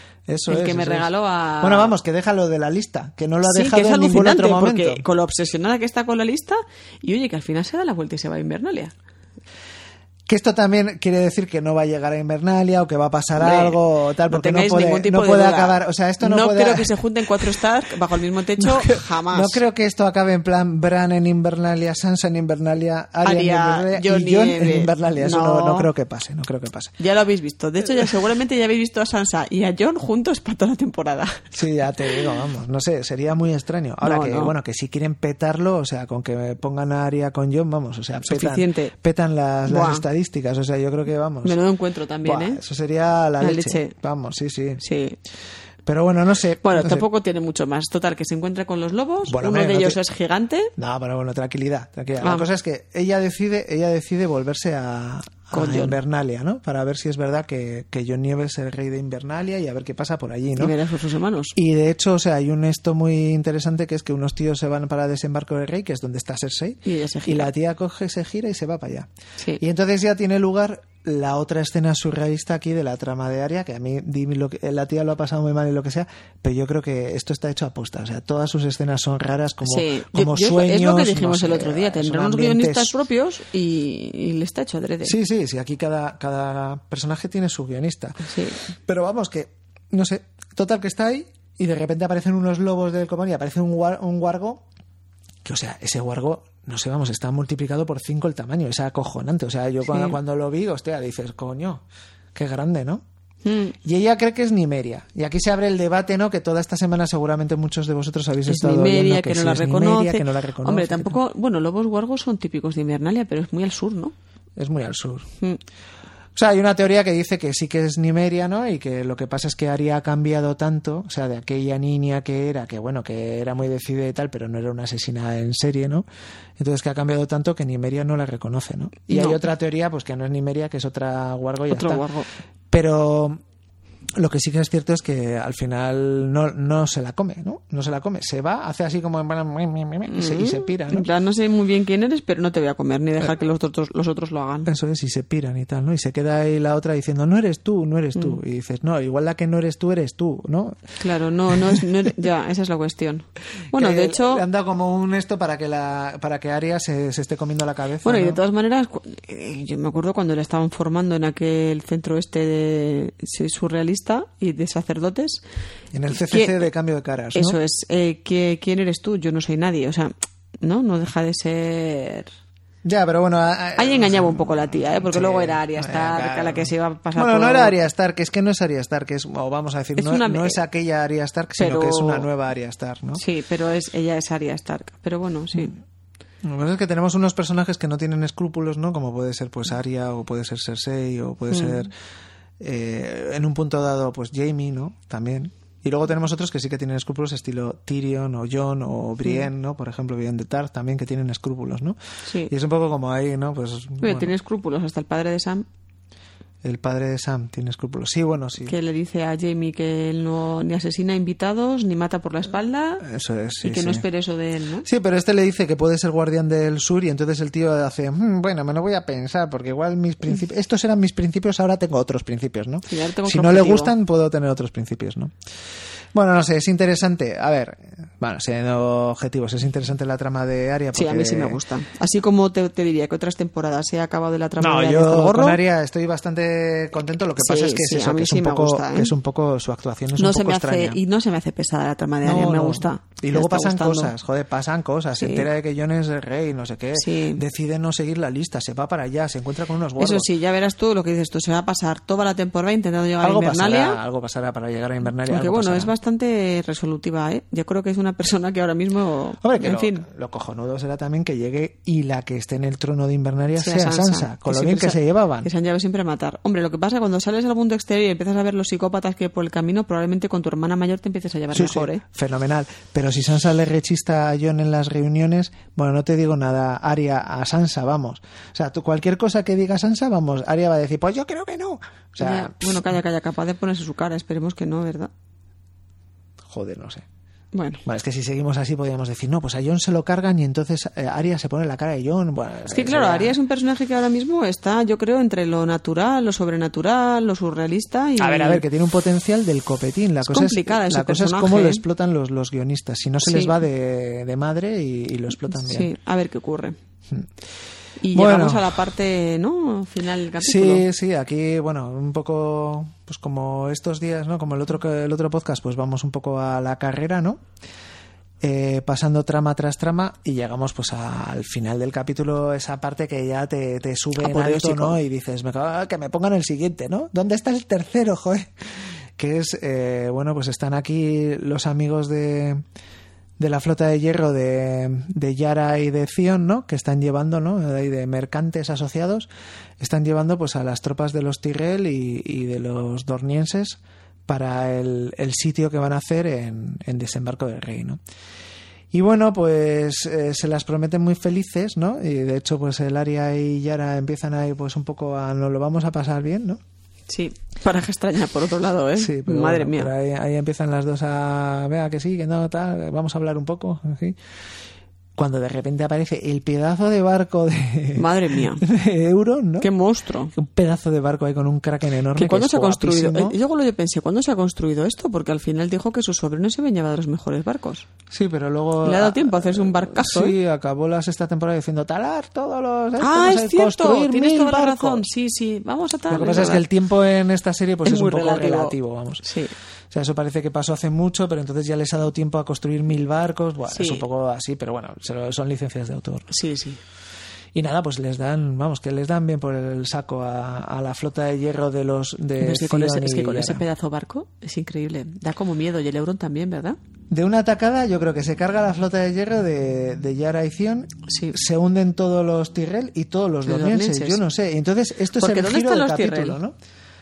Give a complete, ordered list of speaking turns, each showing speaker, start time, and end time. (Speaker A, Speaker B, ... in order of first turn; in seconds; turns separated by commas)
Speaker A: 0.3-1.1, Speaker B: 0.5-1.9, Speaker A: 1.6-5.0, Speaker B: 3.5-8.9, Speaker A: 10.3-16.9, Speaker B: 13.4-19.6, Speaker A: 18.6-26.9, Speaker B: 23.2-25.9, Speaker B: 27.0-31.5, Speaker A: 31.5-41.6, Speaker B: 34.0-34.5, Speaker B: 38.3-38.9, Speaker B: 39.7-40.0, Speaker B: 41.4-42.6, Speaker A: 42.2-44.8, Speaker B: 43.4-43.9, Speaker B: 44.8-45.2, Speaker A: 45.9-47.0, Speaker B: 46.6-50.7, Speaker A: 49.3-50.0, Speaker A: 50.8-60.7, Speaker B: 52.2-52.5, Speaker B: 55.5-56.0, Speaker B: 60.6-61.5, Speaker A: 61.5-69.1, Speaker B: 66.9-67.5, Speaker A: 69.6-82.9, Speaker B: 79.6-85.2, Speaker A: 85.0-94.6, Speaker B: 88.2-88.6, Speaker A: 95.4-101.8, Speaker B: 99.9-100.2, Speaker A: 102.3-103.0, Speaker B: 103.5-103.7, Speaker A: 103.8-111.2, Speaker B: 108.5-114.1, Speaker A: 114.6-115.3, Speaker A: 116.3-126.0, Speaker A: 126.6-132.0, Speaker B: 129.1-129.4, Speaker B: 131.7-132.3, Speaker A: 132.7-133.4, Speaker A: 134.2-141.1, Speaker B: 140.1-144.7, Speaker A: 144.7-150.8, Speaker B: 151.0-154.4, Speaker A: 151.5-151.8, Speaker A: 153.7-158.4, Speaker B: 158.0-165.4, Speaker A: 165.9-167.6, Speaker B: 166.1-166.7, Speaker B: 167.3-172.3, Speaker A: 172.8-183.2, Speaker B: 173.8-177.7, Speaker B: 180.0-180.6, Speaker B: 181.6-182.3, Speaker B: 183.2-185.7, Speaker A: 186.4-191.9, Speaker B: 191.5-191.9, Speaker A: 192.6-202.0, Speaker B: 202.3-202.5, Speaker A: 202.5-204.3, Speaker B: 204.0-205.7, Speaker A: 206.6-208.7, Speaker B: 208.7-213.1, Speaker A: 213.0-214.1, Speaker B: 213.6-214.9, Speaker A: 214.8-225.3, Speaker B: 222.9-223.9, Speaker A: 226.1-231.6, Speaker B: 230.9-235.6, Speaker A: 234.6-241.0, Speaker B: 237.4-239.1, Speaker B: 240.2-244.1, Speaker A: 242.2-250.3, Speaker B: 245.2-245.5, Speaker B: 246.9-247.4, Speaker B: 250.0-254.0, Speaker A: 253.2-255.9, Speaker B: 255.3-260.1, Speaker A: 259.4-265.5, Speaker B: 263.6-272.0, Speaker A: 271.5-282.9, Speaker B: 282.2-285.1, Speaker A: 286.5-287.1, Speaker B: 287.5-287.8, Speaker A: 287.9-293.4, Speaker B: 292.7-298.6, Speaker A: 298.2-305.9, Speaker B: 300.2-301.8, Speaker B: 303.2-303.6, Speaker B: 305.5-306.8, Speaker B: 308.0-310.9, Speaker A: 308.1-308.8, Speaker A: 310.4-317.4, Speaker A: 318.4-328.5, Speaker B: 324.2-325.0, Speaker A: 329.2-332.6, Speaker A: 333.4-339.3, Speaker A: 339.8-348.0, Speaker A: 348.9-356.6, Speaker B: 357.1-359.9, Speaker A: 359.0-364.2, Speaker A: 365.2-369.7, Speaker B: 367.9-368.7, Speaker B: 369.6-370.3, Speaker A: 370.3-373.4, Speaker B: 372.2-377.9, Speaker A: 378.1-385.1, Speaker B: 378.8-380.4, Speaker B: 383.0-386.6, Speaker A: 386.1-389.2, Speaker B: 387.9-389.5, Speaker A: 389.9-396.3, Speaker B: 393.7-394.0, Speaker B: 396.3-396.8, Speaker A: 397.5-403.6, Speaker B: 402.4-406.8, Speaker A: 407.1-416.6, Speaker B: 411.1-411.4, Speaker B: 413.4-414.2, Speaker B: 415.2-416.4